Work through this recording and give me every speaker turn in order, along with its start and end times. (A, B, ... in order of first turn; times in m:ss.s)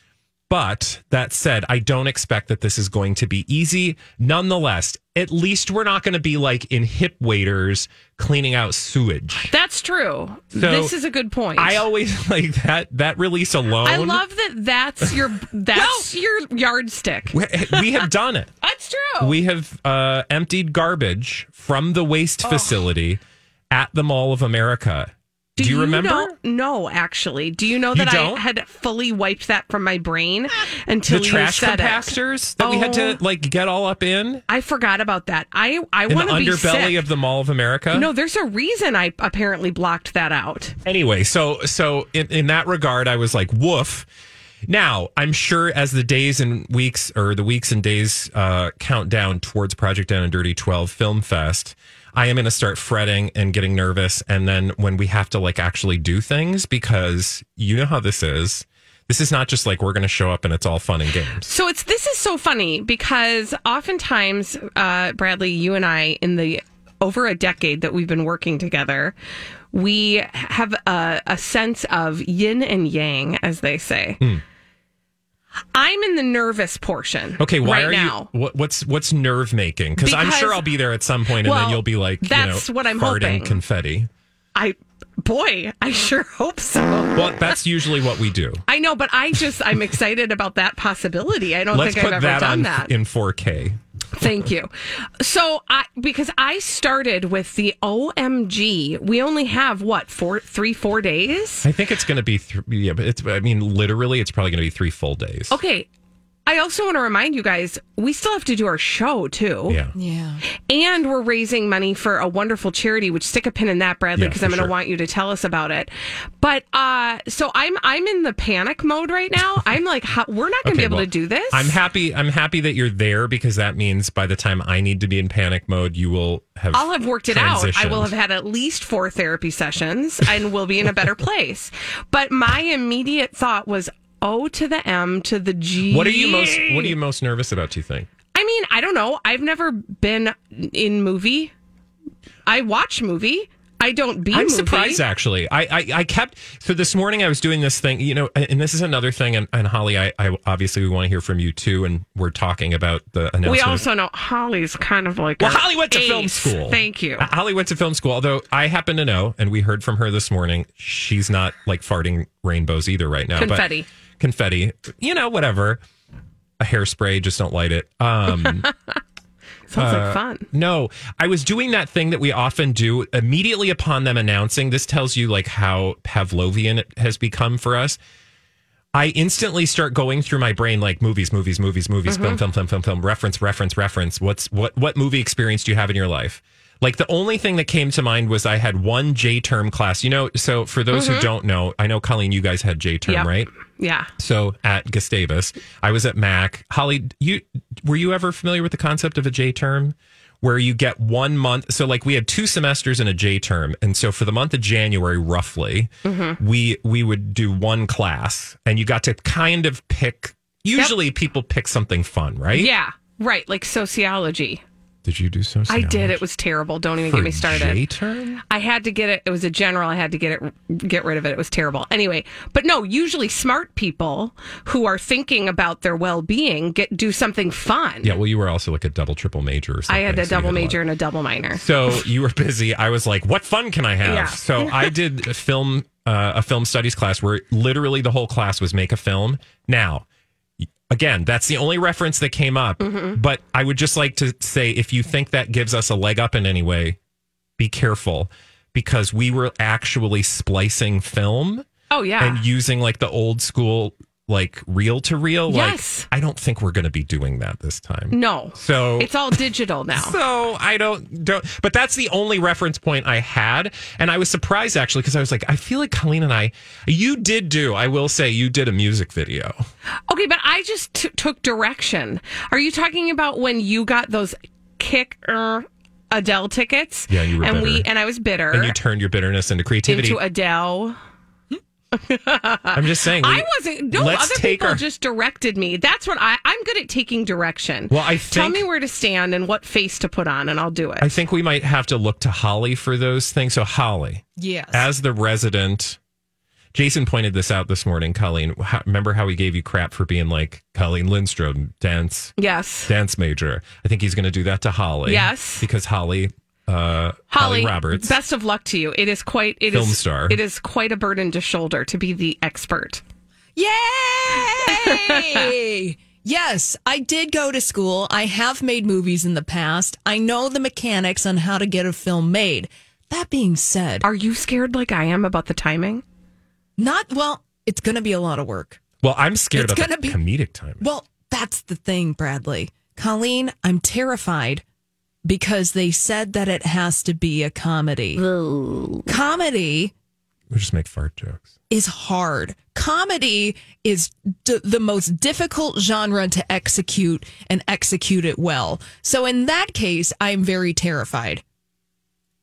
0:00.5-0:09.5 A
0:09.5-0:11.8 B
0:10.6-0:10.9 A
0:11.6-0:14.2 A
0:13.8-0:18.0 B
0:15.7-0:16.1 A
0:17.3-0:18.5 A
0:18.6-0:19.4 B
0:19.2-0:23.2 A
0:22.4-0:22.8 B
0:23.7-0:26.3 A
0:25.6-0:33.2 B
0:27.9-0:28.4 A
0:31.1-0:34.4 A
0:34.5-0:37.0 B
0:36.1-0:38.1 A
0:37.9-0:40.7 B
0:40.8-0:44.1 A
0:44.7-1:01.5 A
1:01.4-1:09.1 B
1:09.7-1:14.2 B
1:15.7-1:18.3 B
1:17.4-1:24.1 A
1:20.0-1:20.7 B
1:21.4-1:23.6 B
1:24.5-1:27.6 B
1:27.1-1:28.6 A
1:28.7-1:32.9 B
1:31.7-1:34.3 A
1:34.2-1:41.7 B
1:41.6-1:45.6 A
1:45.5-1:45.9 B
1:46.4-1:49.8 B
1:49.7-1:49.9 A
1:50.0-1:50.4 C
1:50.6-2:01.7 B
1:54.2-1:54.7 A
2:00.6-2:08.1 A
2:06.7-2:17.0 B
2:15.9-2:18.1 A
2:18.3-2:21.5 B
2:22.4-2:25.0 B
2:24.3-2:33.8 A
2:33.4-2:37.3 B
2:35.4-2:43.6 A
2:43.4-2:43.9 B
2:44.2-2:45.8 A
2:46.6-2:48.7 A
2:48.4-2:48.7 B
2:49.7-2:50.4 B
2:49.8-2:58.0 A
2:58.9-3:13.5 A
3:02.0-3:02.4 B
3:10.9-3:11.3 B
3:13.0-3:14.1 B
3:14.2-3:32.7 A
3:26.0-3:26.4 B
3:32.5-3:34.6 B
3:35.0-3:36.2 A
3:35.7-3:37.8 B
3:37.0-3:38.4 A
3:38.4-3:48.1 B
3:48.0-3:50.8 A
3:49.9-3:51.6 B
3:51.5-4:00.0 A
3:54.0-3:54.9 B
4:00.6-4:07.0 A
4:02.8-4:03.2 B
4:07.6-4:11.6 A
4:11.9-4:12.4 B
4:12.2-4:19.2 A
4:15.5-4:16.1 B
4:18.1-4:20.2 B
4:19.9-4:29.6 A
4:30.1-4:38.8 B
4:37.1-4:37.9 A
4:38.5-4:40.2 A
4:39.9-4:41.0 B
4:41.9-4:51.2 B
4:42.7-4:44.8 A
4:47.9-4:48.6 A
4:51.0-4:56.0 A
4:54.4-4:54.9 C
4:56.7-5:02.3 A
5:02.4-5:02.9 B
5:02.9-5:08.2 A
5:05.0-5:05.7 B
5:07.3-5:13.0 B
5:09.7-5:10.4 A
5:13.6-5:24.1 C
5:14.6-5:15.5 B
5:24.0-5:26.0 B
5:26.8-5:28.8 C
5:29.0-5:30.8 A
5:29.5-5:30.2 C
5:30.8-5:34.6 C
5:35.2-5:38.2 C
5:38.2-5:39.1 B
5:39.1-5:39.9 C
5:40.5-5:41.5 A
5:41.7-5:51.4 C